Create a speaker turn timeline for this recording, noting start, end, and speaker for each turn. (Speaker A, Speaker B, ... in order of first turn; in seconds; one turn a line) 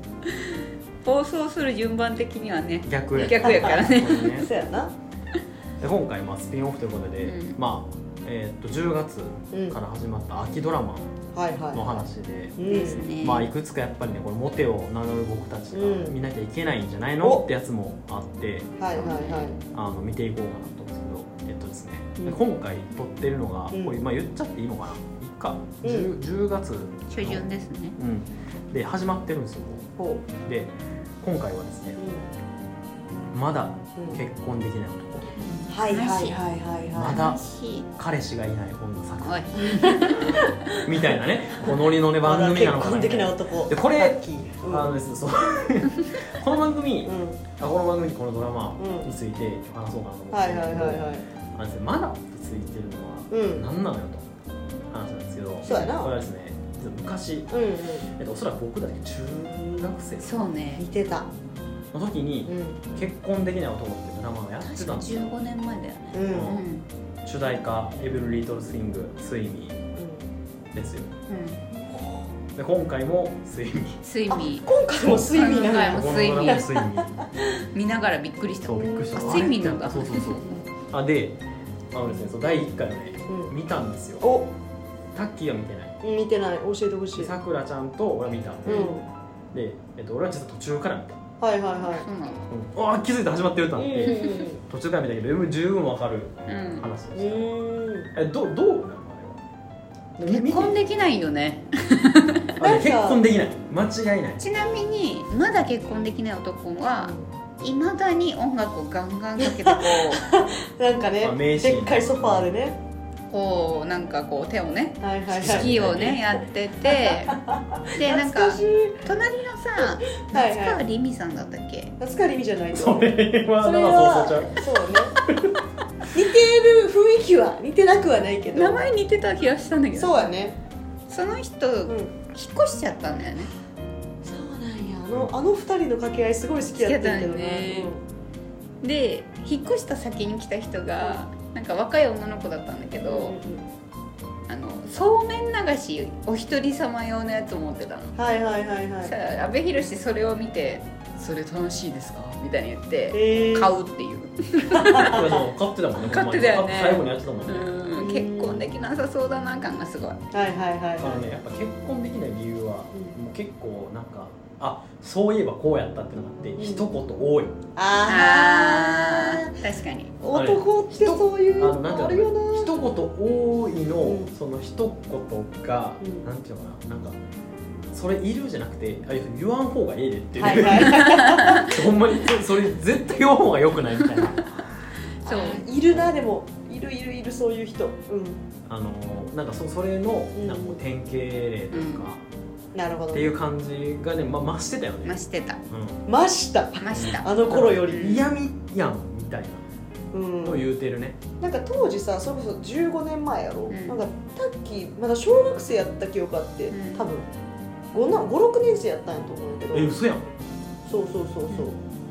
Speaker A: 0.3-4.5
Speaker B: 2.9-4.5
Speaker C: 4.3-4.9
Speaker B: 5.8-11.2
Speaker A: 7.2-7.6
Speaker C: 9.5-9.8
Speaker C: 11.3-12.0
Speaker B: 11.7-18.8
Speaker C: 12.6-13.1
Speaker A: 12.7-13.5
Speaker C: 15.7-16.2
Speaker C: 18.8-19.6
Speaker A: 18.9-19.5
Speaker B: 19.7-27.4
Speaker C: 23.7-24.0
Speaker C: 25.8-26.1
Speaker A: 27.1-28.0
Speaker B: 28.0-29.9
Speaker C: 30.0-30.3
Speaker B: 30.4-32.0
Speaker C: 32.0-32.3
Speaker B: 33.3-35.3
Speaker A: 35.4-36.4
Speaker C: 35.7-37.2
Speaker B: 36.9-37.4
Speaker A: 37.1-37.9
Speaker B: 38.0-39.5
Speaker A: 39.2-40.5
Speaker C: 39.6-44.9
Speaker B: 40.8-54.3
Speaker C: 47.1-47.4
Speaker C: 48.8-49.1
Speaker C: 50.3-51.2
Speaker C: 53.3-53.7
Speaker B: 54.9-60.5
Speaker C: 55.6-56.1
Speaker C: 57.5-58.1
Speaker A: 60.2-60.9
Speaker C: 60.7-61.3
Speaker B: 61.9-65.3
Speaker C: 62.5-62.9
Speaker A: 64.6-66.9
Speaker C: 66.1-66.6
Speaker B: 66.3-66.7
Speaker B: 67.2-69.8
Speaker C: 70.0-70.3
Speaker B: 70.7-71.1
Speaker A: 71.3-71.6
Speaker C: 71.7-72.3
Speaker B: 72.5-74.0
Speaker A: 74.0-76.7
Speaker C: 74.3-77.5
Speaker B: 75.9-77.2
Speaker A: 77.7-80.4
Speaker B: 78.7-81.4
Speaker C: 78.7-79.5
Speaker B: 81.9-84.3
Speaker C: 83.3-83.5
Speaker C: 84.2-84.5
Speaker B: 85.1-86.0
Speaker C: 86.0-87.3
Speaker B: 87.2-91.2
Speaker C: 88.7-89.0
Speaker A: 88.7-89.0
Speaker C: 91.4-92.1
Speaker A: 91.8-92.5
Speaker B: 92.5-97.5
Speaker C: 93.8-94.6
Speaker A: 94.0-94.5
Speaker A: 96.5-96.9
Speaker C: 97.2-98.1
Speaker B: 98.1-99.4
Speaker B: 100.2-100.8
Speaker A: 100.3-102.5
Speaker B: 102.6-104.4
Speaker C: 102.6-103.2
Speaker A: 104.4-110.3
Speaker C: 107.0-107.3
Speaker C: 109.4-112.8
Speaker B: 111.2-112.5
Speaker A: 113.3-117.4
Speaker C: 115.0-115.8
Speaker B: 115.3-116.2
Speaker C: 116.8-119.1
Speaker A: 117.9-122.0
Speaker C: 119.8-120.8
Speaker C: 122.0-123.1
Speaker B: 122.7-125.6
Speaker C: 123.6-125.2
Speaker C: 126.1-128.8
Speaker A: 128.5-130.3
Speaker C: 129.9-130.6
Speaker A: 131.1-133.5
Speaker C: 131.9-132.1
Speaker C: 134.2-138.0
Speaker A: 136.7-137.9
Speaker A: 138.8-143.4
Speaker C: 143.0-143.7
Speaker A: 144.5-148.2
Speaker C: 148.2-149.1
Speaker A: 149.0-155.2
Speaker C: 153.1-153.8
Speaker C: 154.7-155.4
Speaker B: 155.0-157.8
Speaker A: 155.9-160.2
Speaker C: 157.9-158.7
Speaker C: 160.3-161.3
Speaker B: 161.0-167.6
Speaker C: 166.6-166.9
Speaker C: 167.8-169.6
Speaker A: 168.1-170.2
Speaker C: 170.2-172.8
Speaker B: 170.3-177.2
Speaker C: 174.0-174.3
Speaker B: 177.9-184.6
Speaker C: 180.4-181.7
Speaker A: 180.9-181.6
Speaker A: 184.1-184.5
Speaker A: 185.2-185.7
Speaker C: 185.2-188.4
Speaker B: 188.7-192.2
Speaker C: 190.3-190.8
Speaker A: 191.7-192.1
Speaker C: 192.7-193.3
Speaker B: 193.1-196.0
Speaker A: 195.1-195.6
Speaker C: 196.1-198.3
Speaker A: 196.8-197.4
Speaker B: 196.9-199.6
Speaker A: 197.9-198.2
Speaker C: 200.1-200.6
Speaker B: 200.4-201.2
Speaker C: 201.4-207.3
Speaker A: 203.7-204.1
Speaker A: 206.7-207.1
Speaker C: 207.9-210.0
Speaker B: 209.7-210.3
Speaker C: 210.9-211.8